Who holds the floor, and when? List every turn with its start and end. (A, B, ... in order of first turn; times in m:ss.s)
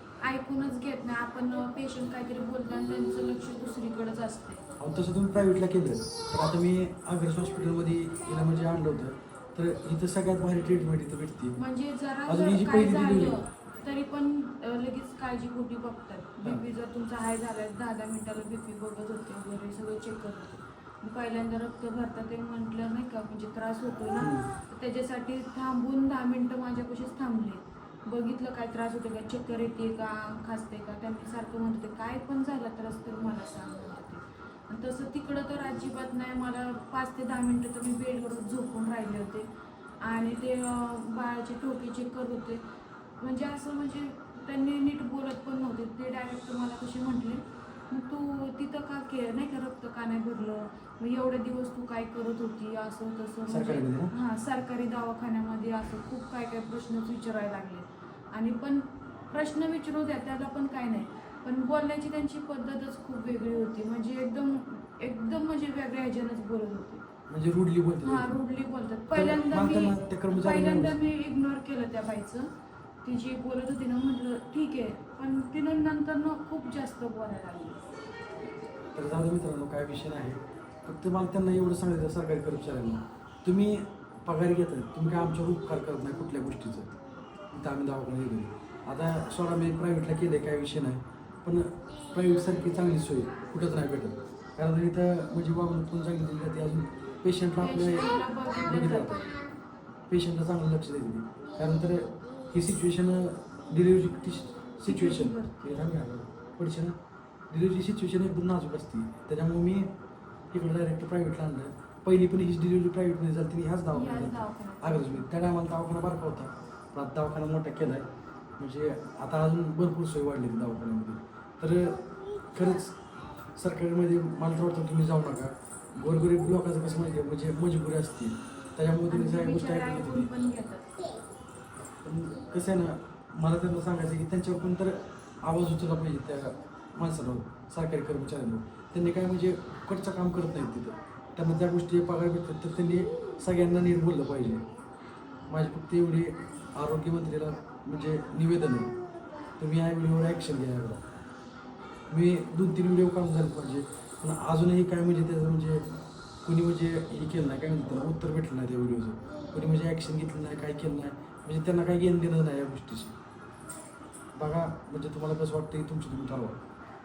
0:00.2-0:04.6 A
0:04.8-0:11.6 B
0:11.6-0:39.5 A
0:12.3-0:13.4 B
0:24.2-0:24.5 B
0:40.0-0:42.6 A
0:43.2-1:07.0 A
0:53.5-0:54.1 B
1:07.3-1:08.4 B
1:08.0-1:12.5 A
1:09.1-1:11.0 B
1:13.0-1:17.9 A
1:19.0-1:26.9 B
1:27.5-1:39.4 B
1:37.6-1:39.5 A
1:40.1-1:47.0 B
1:44.8-1:45.9 A
1:47.5-1:49.9 B
1:50.5-1:58.1 B
1:53.9-1:55.3 A
1:58.6-2:03.0 B
2:03.6-2:10.3 B
2:09.1-2:10.9 A
2:12.0-2:24.7 B
2:25.5-2:28.9 B
2:29.6-2:31.0 B
2:32.1-2:35.9 B
2:36.4-2:43.1 B
2:44.4-2:46.6 B